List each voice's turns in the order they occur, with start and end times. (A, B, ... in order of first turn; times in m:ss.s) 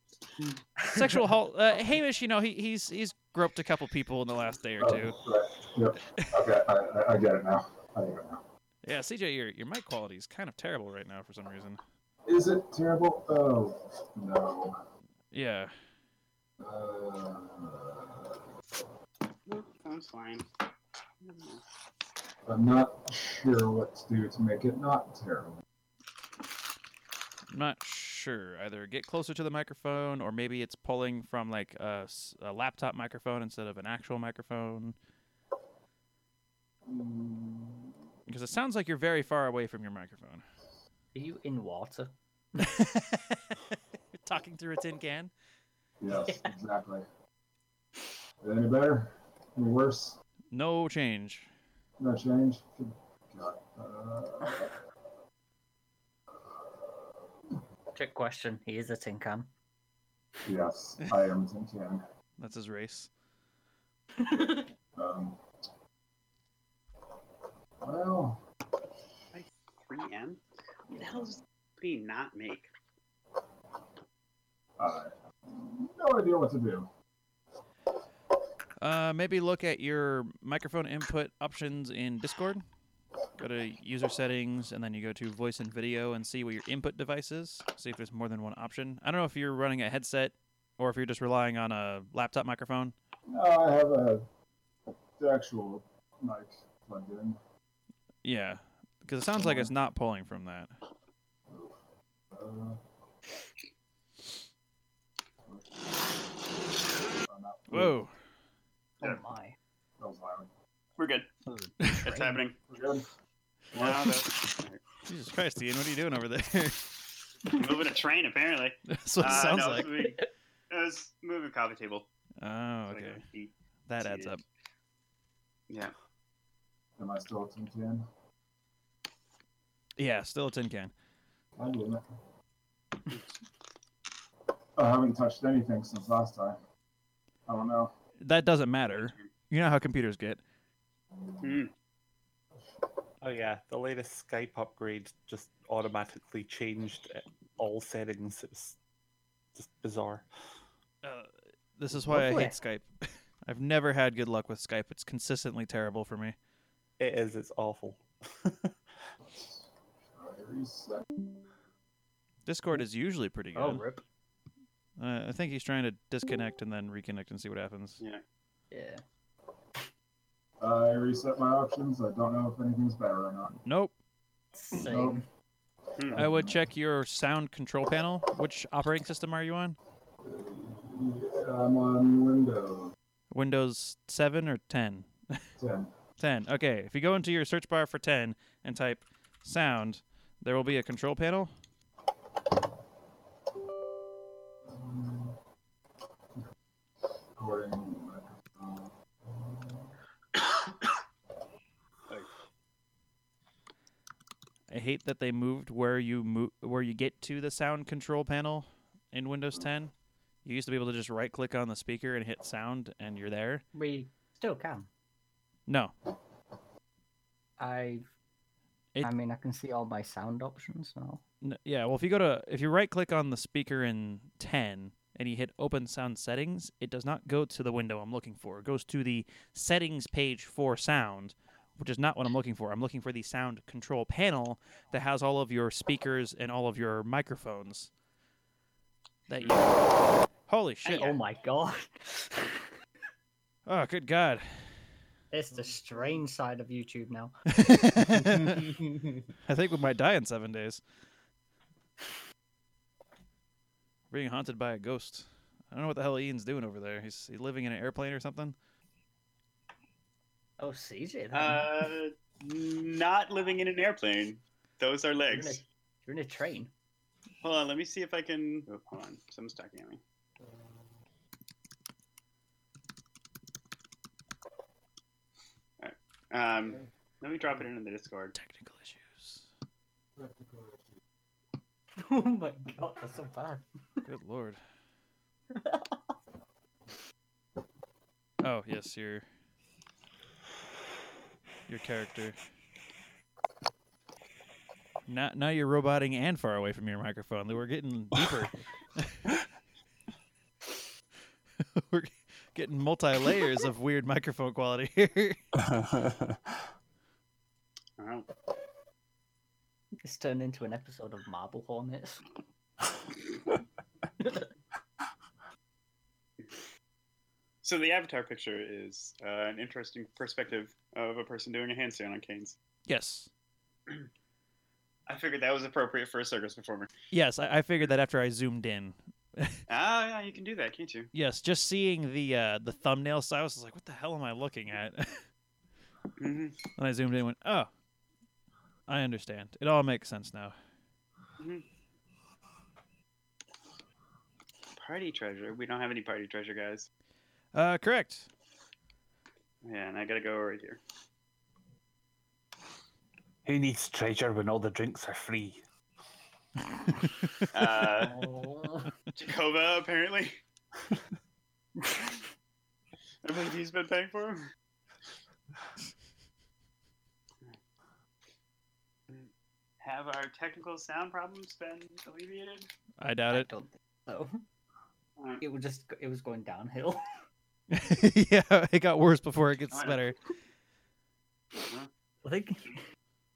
0:00.9-0:05.2 A
0:04.8-0:08.4 B
0:08.8-0:11.8 A
0:12.2-0:14.8 B
0:15.3-0:15.7 A
0:16.6-0:18.4 B
0:19.5-0:20.5 C
0:21.2-0:21.6 C
0:22.5-0:25.6 B
0:27.5-0:34.9 A
0:36.9-0:37.9 B
0:38.3-0:40.4 A
0:41.1-0:42.6 D
0:42.6-0:45.3 A
0:46.0-0:47.0 B
0:46.1-0:46.5 D
0:48.4-0:50.2 B
0:50.5-0:51.5 A
0:52.0-0:54.8 B
0:57.9-0:59.5 D
1:00.4-1:02.0 B
1:02.4-1:03.1 A
1:04.2-1:04.6 D
1:05.0-1:05.4 B
1:07.8-1:08.4 B
1:09.3-1:12.7 C
1:14.8-1:16.9 B
1:18.8-1:22.6 A
1:23.4-1:32.9 A
1:33.3-1:34.3 B
1:35.2-1:37.4 B
1:38.2-1:40.7 A
1:39.4-1:39.7 B
1:41.5-1:41.8 B
1:42.3-1:42.8 B
1:45.4-1:46.2 B
1:47.1-1:48.0 B
1:47.7-1:48.1 A
1:49.0-1:49.6 D
1:50.0-1:50.5 B
1:51.0-1:51.3 C
1:51.8-1:52.0 A
1:51.8-1:52.4 D
1:52.0-1:52.6 C
1:52.7-1:53.1 B
1:53.7-1:54.1 B
1:53.7-1:54.8 C
1:55.0-1:56.9 A
1:57.5-2:02.1 C
1:58.9-2:00.1 A
2:02.4-2:03.2 A
2:02.9-2:04.4 C
2:03.9-2:04.4 A
2:07.0-2:08.0 B
2:10.0-2:10.9 A
2:11.6-2:12.1 B
2:14.8-2:16.6 B
2:17.5-2:17.9 B
2:18.2-2:20.4 A
2:18.9-2:19.2 C
2:21.4-2:21.7 C
2:23.2-2:28.8 E
2:29.5-2:30.2 E
2:31.0-2:36.3 A
2:31.9-2:32.6 D
2:37.0-2:38.7 E
2:39.3-2:41.1 B
2:42.4-2:43.8 A
2:43.5-2:44.0 D
2:45.0-2:48.0 A
2:48.7-2:49.0 D
2:50.6-2:53.5 B
2:53.6-2:53.9 A
2:54.5-2:55.2 D
2:54.7-2:55.2 B
2:56.0-2:56.6 B
2:56.1-2:59.8 A
3:00.2-3:02.9 B
3:03.3-3:05.4 A
3:05.6-3:05.9 B
3:06.2-3:11.5 A
3:14.7-3:15.4 B
3:17.4-3:19.9 B
3:24.7-3:29.9 A
3:30.4-3:33.6 A
3:33.7-3:34.9 D
3:35.7-3:35.9 A
3:37.6-3:38.0 D
3:39.0-3:41.2 D
3:41.4-3:57.9 A
3:59.3-3:59.9 A
4:00.5-4:01.1 A
4:00.8-4:02.7 D
4:00.9-4:01.1 C
4:03.7-4:04.4 A
4:05.3-4:07.3 D
4:07.5-4:08.7 A
4:09.4-4:10.8 A
4:14.1-4:18.5 A
4:20.6-4:21.7 D
4:21.3-4:25.6 C
4:25.2-4:26.7 D
4:27.4-4:30.0 C
4:35.8-4:38.3 C
4:38.3-4:39.4 A
4:40.2-4:40.8 B
4:42.0-4:44.1 D
4:44.0-4:44.6 A
4:45.5-4:46.0 D
4:48.4-4:49.2 A
4:51.7-4:52.4 A
4:55.1-4:59.3 A
5:01.8-5:05.4 A
5:05.6-5:06.4 E
5:08.0-5:08.3 C
5:10.0-5:12.2 D
5:14.2-5:14.5 D
5:17.6-5:22.6 C
5:22.9-5:23.3 A
5:25.1-5:26.9 C
5:27.1-5:29.6 A
5:29.7-5:31.1 C
5:31.1-5:35.2 A
5:36.2-5:36.6 C
5:36.8-5:37.7 A
5:38.9-5:40.5 A
5:41.4-5:41.6 C
5:44.8-5:46.9 C
5:47.5-5:48.3 A
5:49.6-5:50.8 C
5:53.4-5:55.6 E
5:57.5-5:58.2 C
5:57.9-5:58.9 D
5:59.2-6:00.4 C
6:03.2-6:04.5 C
6:09.8-6:12.7 C
6:13.0-6:13.5 A
6:13.3-6:14.4 D
6:15.2-6:15.4 C
6:15.4-6:17.1 D
6:17.7-6:20.2 A
6:19.7-6:20.1 C
6:21.6-6:21.9 C
6:22.2-6:22.8 D